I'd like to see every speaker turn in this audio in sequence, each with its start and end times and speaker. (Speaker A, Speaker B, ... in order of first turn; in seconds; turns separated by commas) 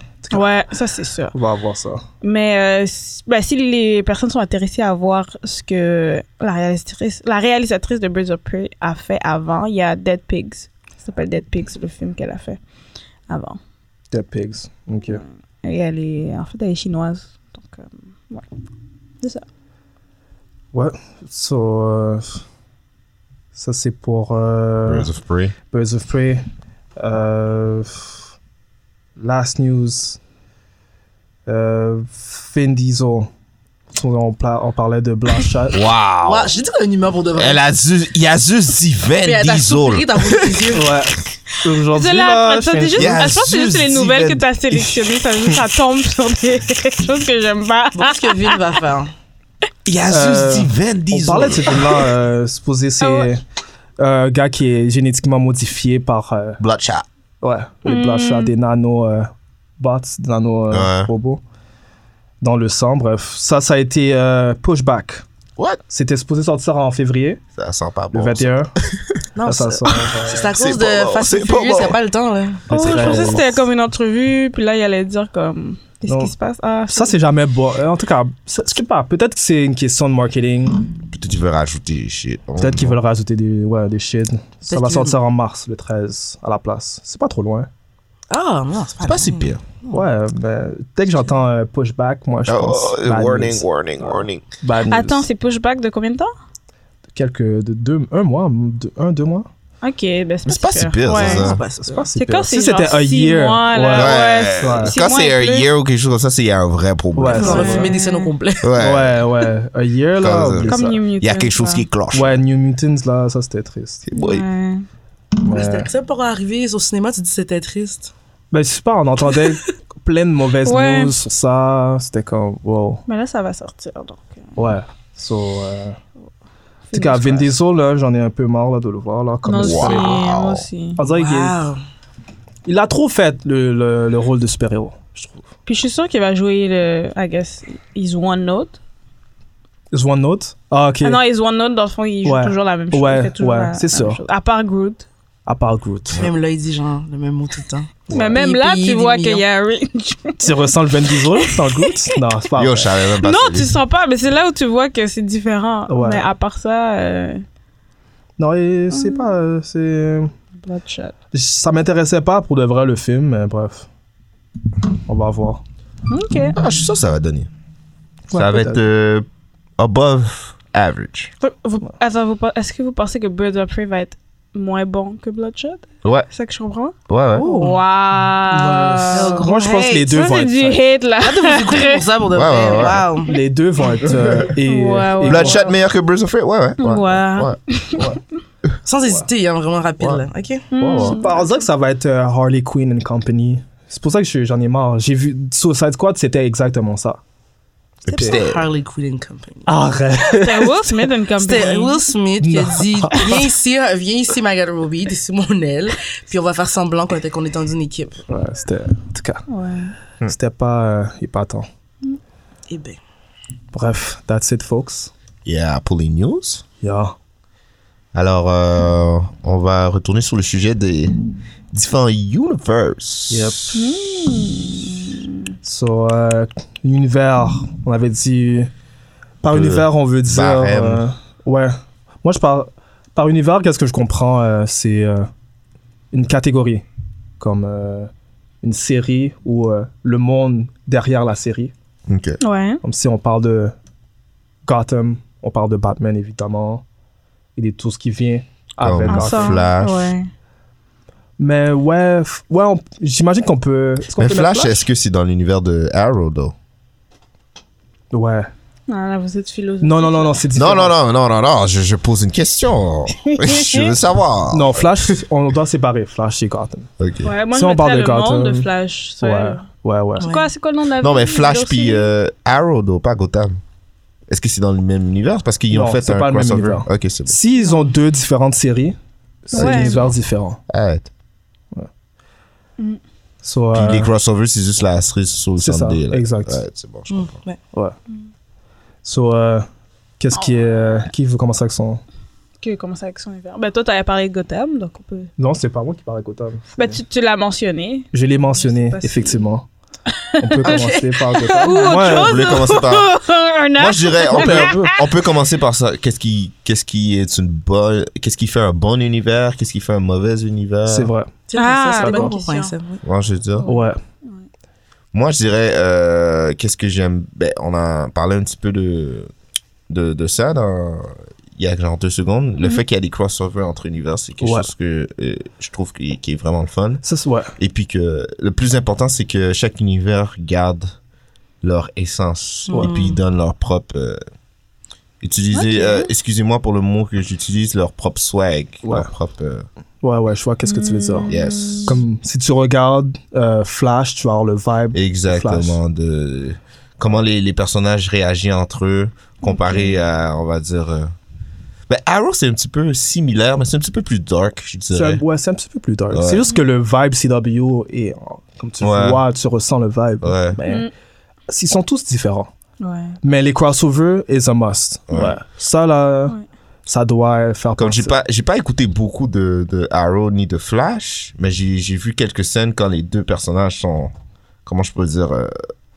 Speaker A: 0.2-0.5, Speaker B: 0.3-1.3, Speaker A: 1.3-2.0, Speaker B: 2.2-12.6, Speaker B: 13.3-13.6, Speaker A: 14.1-15.2, Speaker B: 15.1-18.5, Speaker A: 20.7-22.4, Speaker A: 23.6-25.1, Speaker C: 24.9-25.6, Speaker A: 25.7-26.4, Speaker A: 27.0-28.2, Speaker A: 29.2-30.2, Speaker A: 31.5-33.3, Speaker A: 33.9-35.8, Speaker C: 35.7-36.5, Speaker D: 36.2-37.6, Speaker C: 37.4-40.6, Speaker D: 39.2-41.0, Speaker A: 40.7-43.2, Speaker B: 41.9-48.6, Speaker C: 43.0-45.0, Speaker D: 48.0-49.1, Speaker C: 49.9-52.1, Speaker A: 50.1-53.4, Speaker B: 53.0-53.3, Speaker A: 54.0-56.6, Speaker C: 56.6-57.0, Speaker A: 57.4-61.4, Speaker B: 57.9-58.5, Speaker C: 60.7-61.1, Speaker A: 62.4-65.2, Speaker A: 65.9-67.4, Speaker C: 67.6-69.2, Speaker A: 68.1-68.7, Speaker D: 69.4-73.5, Speaker A: 69.5-70.5, Speaker C: 70.5-72.0, Speaker A: 72.7-73.6, Speaker B: 72.7-77.2, Speaker A: 76.1-76.3, Speaker A: 76.9-80.8, Speaker C: 81.1-83.0, Speaker A: 82.6-87.7, Speaker D: 84.7-85.2, Speaker D: 88.3-90.0, Speaker C: 89.0-89.6, Speaker A: 89.9-95.3, Speaker C: 92.5-94.4, Speaker B: 94.9-96.3, Speaker A: 97.2-99.5, Speaker B: 99.8-101.6, Speaker C: 100.5-101.6, Speaker D: 101.1-102.1, Speaker A: 101.8-105.0, Speaker B: 102.2-105.7, Speaker C: 103.9-107.8, Speaker A: 107.2-107.9, Speaker B: 107.3-108.3, Speaker D: 107.3-108.8, Speaker C: 108.6-109.2, Speaker A: 108.8-111.0, Speaker C: 110.2-112.4, Speaker B: 110.7-111.8, Speaker A: 112.1-114.1, Speaker C: 114.1-114.5, Speaker B: 114.2-114.9, Speaker A: 115.4-115.9, Speaker D: 115.5-118.1, Speaker A: 118.5-123.0, Speaker B: 120.6-121.2, Speaker B: 123.1-124.4, Speaker A: 124.6-126.0, Speaker B: 126.9-127.5, Speaker A: 126.9-130.1, Speaker B: 129.4-131.0, Speaker C: 129.6-130.7, Speaker A: 131.0-131.6, Speaker D: 131.1-131.8, Speaker A: 132.7-135.4, Speaker B: 135.7-138.8, Speaker A: 139.9-141.2, Speaker B: 141.0-145.1, Speaker A: 142.2-144.2, Speaker A: 145.5-146.2, Speaker D: 146.2-149.4, Speaker A: 148.1-148.4, Speaker B: 148.1-150.6, Speaker A: 150.4-152.9, Speaker B: 151.3-151.9, Speaker C: 152.6-153.8, Speaker B: 153.2-157.4, Speaker A: 155.9-156.3, Speaker A: 158.4-160.3, Speaker B: 158.9-159.3, Speaker B: 160.6-161.1, Speaker A: 161.3-163.9, Speaker A: 165.1-165.6, Speaker B: 166.1-166.6, Speaker C: 166.6-167.5, Speaker A: 168.3-168.8, Speaker C: 168.3-169.3, Speaker C: 169.8-171.3, Speaker B: 171.4-182.0, Speaker C: 177.1-177.5, Speaker D: 177.4-177.8, Speaker A: 178.5-180.8, Speaker D: 179.1-179.9, Speaker D: 181.2-183.3, Speaker C: 182.3-183.1, Speaker A: 183.3-185.7, Speaker B: 184.7-185.7, Speaker C: 185.2-187.6, Speaker B: 186.8-188.2, Speaker D: 188.8-190.7, Speaker B: 190.7-191.6, Speaker C: 190.8-191.2, Speaker A: 190.9-197.2, Speaker C: 198.0-198.7, Speaker D: 198.1-199.7, Speaker A: 199.7-201.1, Speaker B: 200.3-202.0, Speaker D: 201.4-208.2, Speaker A: 202.4-203.3, Speaker A: 208.3-209.4, Speaker B: 209.5-209.9, Speaker A: 210.3-211.7, Speaker D: 212.7-213.0, Speaker A: 213.7-215.1, Speaker C: 215.4-216.6, Speaker A: 216.8-217.2, Speaker C: 218.1-221.2, Speaker C: 221.7-223.7, Speaker A: 223.3-223.8, Speaker B: 223.7-225.3, Speaker A: 225.6-228.7, Speaker A: 229.4-235.3, Speaker C: 229.5-231.1, Speaker A: 236.1-236.8, Speaker A: 237.4-238.1, Speaker A: 238.6-241.7, Speaker C: 242.1-242.4, Speaker B: 242.4-242.8, Speaker A: 242.8-243.8, Speaker A: 244.7-246.8, Speaker A: 247.6-249.6, Speaker C: 248.8-250.2, Speaker B: 249.1-250.3, Speaker A: 251.4-254.9, Speaker C: 254.2-256.6, Speaker A: 258.1-258.5, Speaker B: 258.9-260.4, Speaker A: 259.8-261.0, Speaker C: 260.5-265.1, Speaker B: 263.3-263.9, Speaker A: 264.5-266.9, Speaker C: 267.0-267.3, Speaker B: 267.2-269.6, Speaker A: 267.5-270.3, Speaker D: 270.2-270.5, Speaker B: 270.2-272.1, Speaker C: 271.0-273.6, Speaker C: 274.3-277.4, Speaker A: 275.7-280.6, Speaker B: 279.5-280.1, Speaker C: 279.6-279.9, Speaker C: 280.7-281.1, Speaker A: 283.4-284.1, Speaker C: 283.7-287.4, Speaker A: 285.6-286.6, Speaker D: 287.1-287.6, Speaker A: 289.0-289.7, Speaker A: 290.2-292.0, Speaker B: 290.3-291.1, Speaker B: 292.6-295.3, Speaker A: 295.4-297.0, Speaker B: 296.8-299.4, Speaker A: 298.1-299.7, Speaker B: 300.2-300.8, Speaker A: 300.4-302.4, Speaker D: 300.6-302.0, Speaker B: 301.6-305.0, Speaker C: 301.9-303.1, Speaker C: 303.8-311.1, Speaker A: 304.4-304.9, Speaker A: 310.9-311.3, Speaker D: 311.5-313.0, Speaker B: 311.6-312.7, Speaker A: 312.0-312.3, Speaker C: 313.0-313.7, Speaker B: 313.6-314.4, Speaker A: 313.7-314.0, Speaker C: 315.1-319.3, Speaker C: 319.9-327.0, Speaker A: 324.4-324.7, Speaker A: 327.0-327.5, Speaker C: 327.6-330.9, Speaker C: 331.6-334.2, Speaker D: 332.7-333.2, Speaker C: 335.2-339.7, Speaker B: 335.5-336.1, Speaker A: 338.8-339.1, Speaker A: 340.0-341.3, Speaker B: 340.7-342.0, Speaker C: 341.3-342.0, Speaker A: 341.9-345.8, Speaker C: 344.9-351.1, Speaker B: 349.4-350.0, Speaker C: 351.9-355.2, Speaker A: 354.9-360.9, Speaker C: 356.1-356.4, Speaker C: 358.8-359.2, Speaker C: 360.2-360.6, Speaker B: 360.7-360.9, Speaker A: 361.5-362.5, Speaker B: 362.8-363.2, Speaker A: 363.2-368.1, Speaker C: 365.1-365.4, Speaker C: 367.8-374.1, Speaker C: 374.7-375.5